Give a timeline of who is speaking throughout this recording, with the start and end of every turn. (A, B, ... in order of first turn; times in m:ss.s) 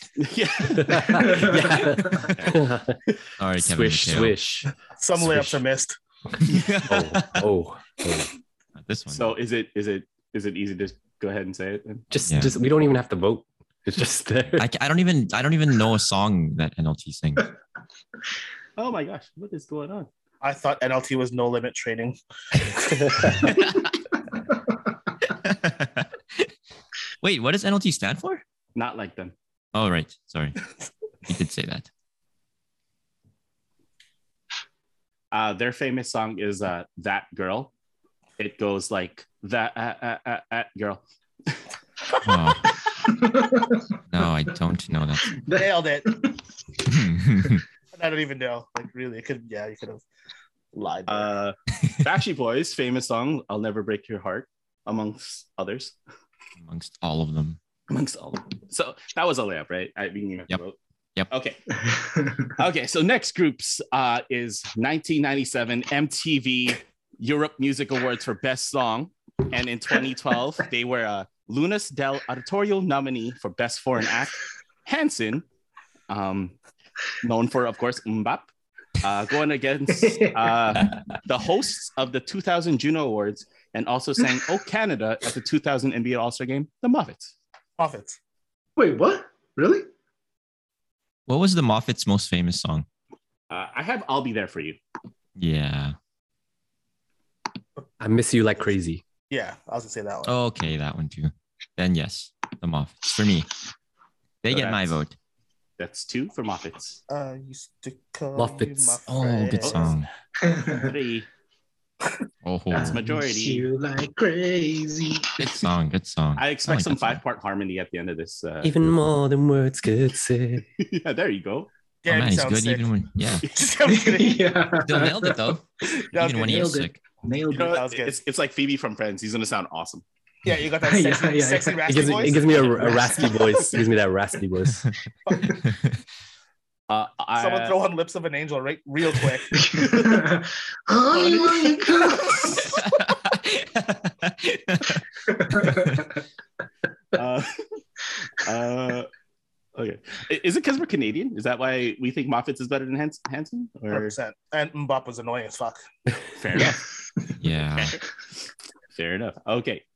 0:00.2-0:01.7 A
0:00.8-0:03.0 B
0:00.9-0:02.3 C
0:02.3-0:03.2 A
0:03.4-0:04.4 D
0:03.6-0:05.6 B
0:05.0-0:06.0 E
0:06.4-0:07.5 D
0:06.9-0:08.3 B
0:08.8-0:09.3 D
0:09.1-0:12.1 A
0:12.1-0:14.7 B
0:12.2-0:12.6 D
0:14.6-0:17.5 D
0:18.8-0:20.1 A
0:20.4-0:23.3 E
0:25.2-0:26.5 D
0:27.2-0:28.4 D
0:28.7-0:29.3 A
0:29.7-0:30.6 D
0:31.2-0:31.9 D
0:35.3-0:37.7 A
0:38.4-0:41.6 A
0:42.2-0:42.7 D
0:42.7-0:44.0 C
0:44.1-0:45.4 D
0:45.2-0:46.4 C
0:45.5-0:46.1 E
0:46.8-0:47.6 D
0:47.9-0:50.0 E
0:50.7-0:51.3 E
0:51.1-0:56.0 A
0:56.6-0:57.6 D
0:57.9-1:00.8 A
1:01.3-1:01.6 A
1:01.8-1:02.5 C
1:02.4-1:15.4 A
1:16.1-1:16.6 A
1:17.2-1:18.5 A
1:19.0-1:27.3 A
1:20.0-1:20.5 C
1:27.8-1:28.2 E
1:28.8-1:29.9 C
1:31.3-1:32.8 D
1:33.5-1:34.8 A
1:35.4-1:35.9 D
1:38.0-1:39.0 B
1:39.3-1:40.3 E
1:40.2-1:43.5 D
1:44.4-1:45.1 D
1:44.5-1:45.0 A
1:45.8-1:47.0 A
1:47.1-1:50.0 E
1:48.3-1:49.7 B
1:49.6-1:50.0 A
1:49.6-1:50.1 D
1:50.4-1:50.9 C
1:50.7-1:51.3 A
1:52.4-1:53.0 D
1:52.7-1:55.6 C
1:52.7-1:53.6 A
1:55.4-1:57.2 D
1:56.4-1:58.7 A
1:58.6-2:00.6 B
2:00.8-2:01.7 A
2:02.0-2:04.6 E
2:02.1-2:03.5 D
2:03.8-2:05.6 C
2:04.8-2:07.0 D
2:06.1-2:06.7 E
2:06.4-2:07.8 C
2:07.5-2:10.0 A
2:07.6-2:08.2 E
2:10.4-2:13.4 E
2:10.8-2:13.6 C
2:11.8-2:14.8 B
2:15.2-2:15.6 E
2:15.6-2:16.0 D
2:16.9-2:17.8 A
2:17.4-2:19.9 E
2:19.5-2:22.8 C
2:21.1-2:22.6 A
2:22.5-2:26.1 D
2:25.3-2:26.2 C
2:27.1-2:27.5 A
2:28.4-2:29.1 A
2:29.7-2:34.1 A
2:33.9-2:35.8 E
2:36.3-2:36.8 A
2:36.5-2:37.3 C
2:37.4-2:38.0 D
2:37.7-2:39.8 A